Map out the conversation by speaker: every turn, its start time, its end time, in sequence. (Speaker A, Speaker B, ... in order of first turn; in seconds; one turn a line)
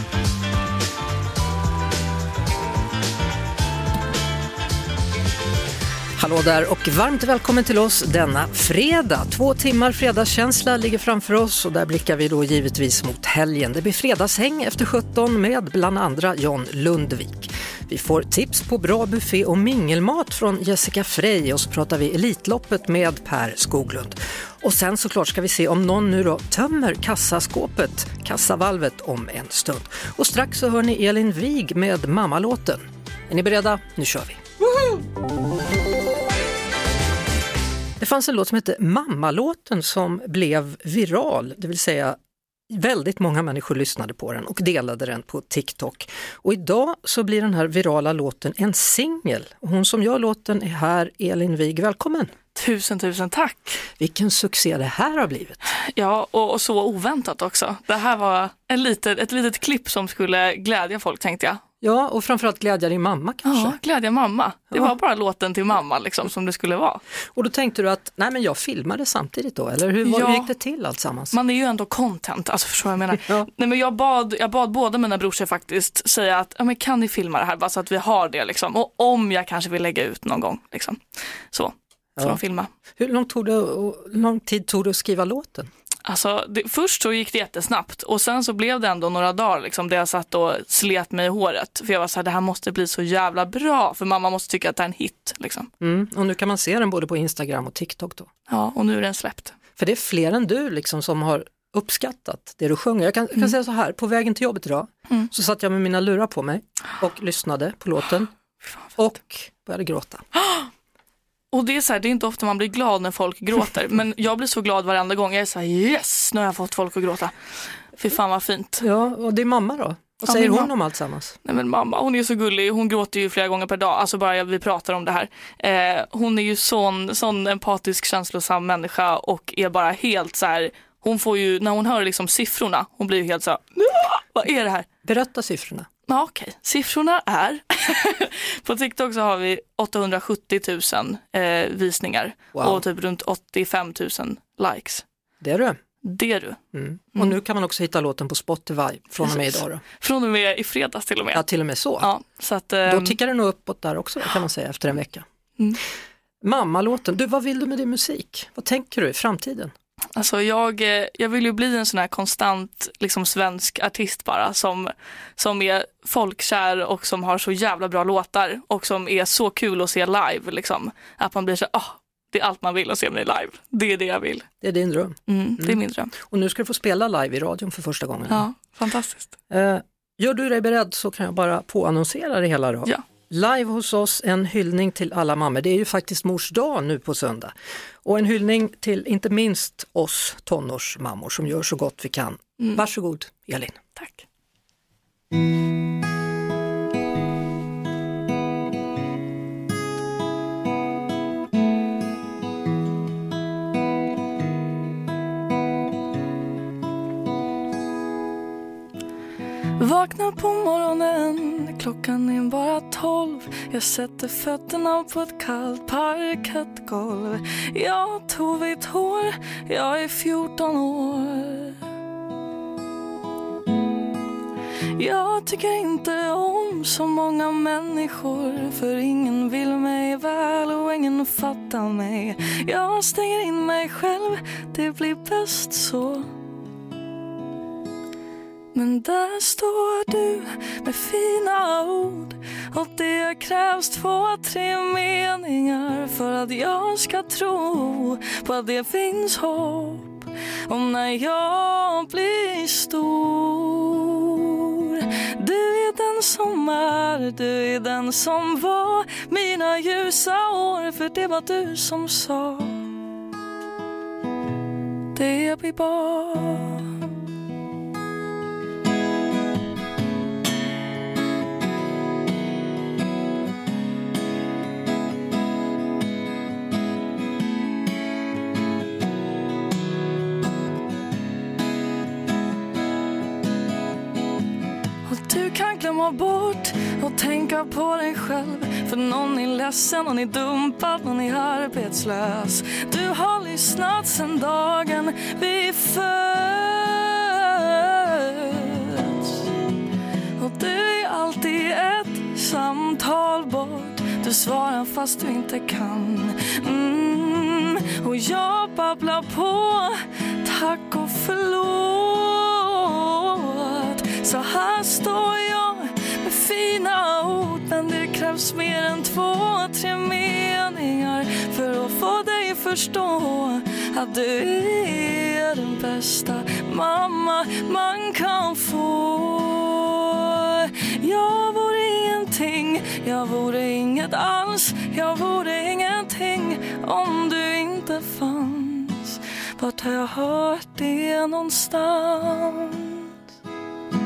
Speaker A: 6.2-34.4
Speaker A: 38.0-42.2
Speaker A: 42.7-52.3
Speaker B: 52.5-53.8
Speaker A: 54.0-55.6
Speaker B: 55.9-61.6
Speaker A: 61.8-63.8
Speaker B: 63.5-67.0
Speaker A: 67.3-71.3
Speaker B: 70.0-70.5
Speaker B: 71.3-82.7
Speaker A: 83.0-85.7
Speaker B: 86.1-95.7
Speaker A: 95.8-98.3
Speaker B: 98.5-99.5
Speaker A: 99.8-108.3
Speaker A: 109.0-110.2
Speaker B: 110.4-110.7
Speaker B: 111.5-117.3
Speaker B: 118.0-118.8
Speaker A: 118.8-121.3
Speaker B: 120.3-120.7
Speaker B: 121.5-134.9
Speaker A: 135.1-135.9
Speaker B: 136.1-145.0
Speaker A: 142.6-142.8
Speaker A: 145.4-145.8
Speaker B: 146.1-146.6
Speaker A: 146.7-149.8
Speaker B: 149.2-151.4
Speaker A: 151.3-152.1
Speaker B: 152.0-153.2
Speaker A: 152.9-155.2
Speaker A: 156.4-159.7
Speaker B: 160.2-174.5
Speaker A: 174.6-178.5
Speaker B: 175.3-176.1
Speaker B: 178.3-179.3
Speaker A: 179.5-187.5
Speaker A: 188.1-193.8
Speaker B: 194.0-194.2
Speaker B: 209.8-221.8
Speaker B: 225.0-236.3
Speaker B: 238.7-262.8
Speaker B: 265.1-266.9
Speaker B: 285.1-299.4
Speaker B: 300.4-343.1